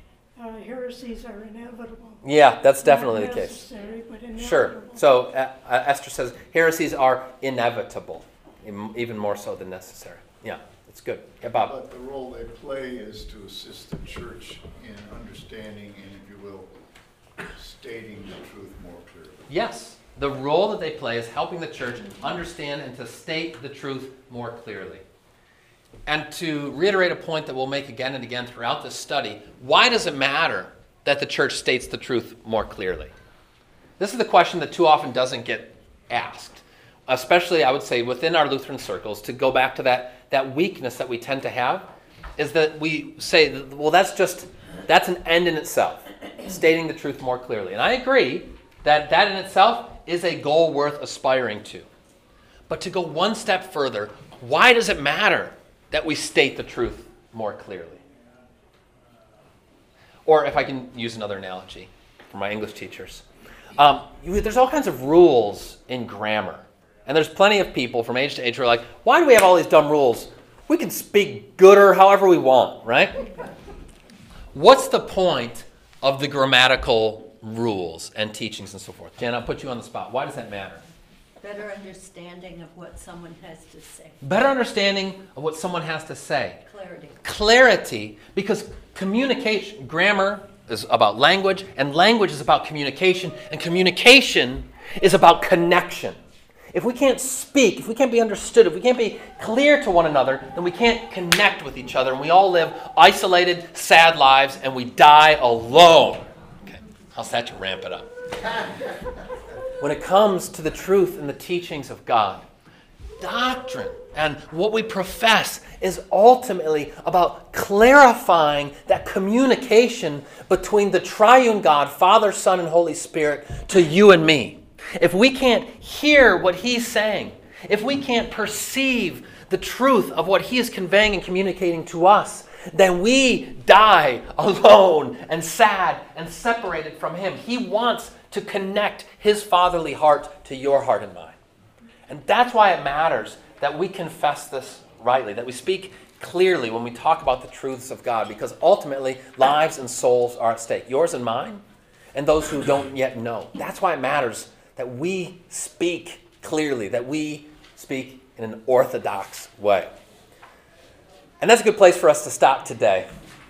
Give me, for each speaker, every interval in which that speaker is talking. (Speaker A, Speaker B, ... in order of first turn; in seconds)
Speaker A: 0.4-2.2, 2.8-5.1
Speaker B: 2.2-3.7, 4.4-11.7, 19.5-25.0, 26.1-33.1, 34.0-51.9, 52.7-58.0, 60.3-63.2, 63.8-73.2, 74.5-80.8, 84.2-86.6, 87.2-96.2, 96.7-108.1, 109.8-112.5, 113.2-141.4, 142.1-151.6, 152.1-159.9, 161.4-163.1
Speaker C: 11.6-16.7, 17.4-19.5
Speaker D: 81.4-84.2, 86.7-87.2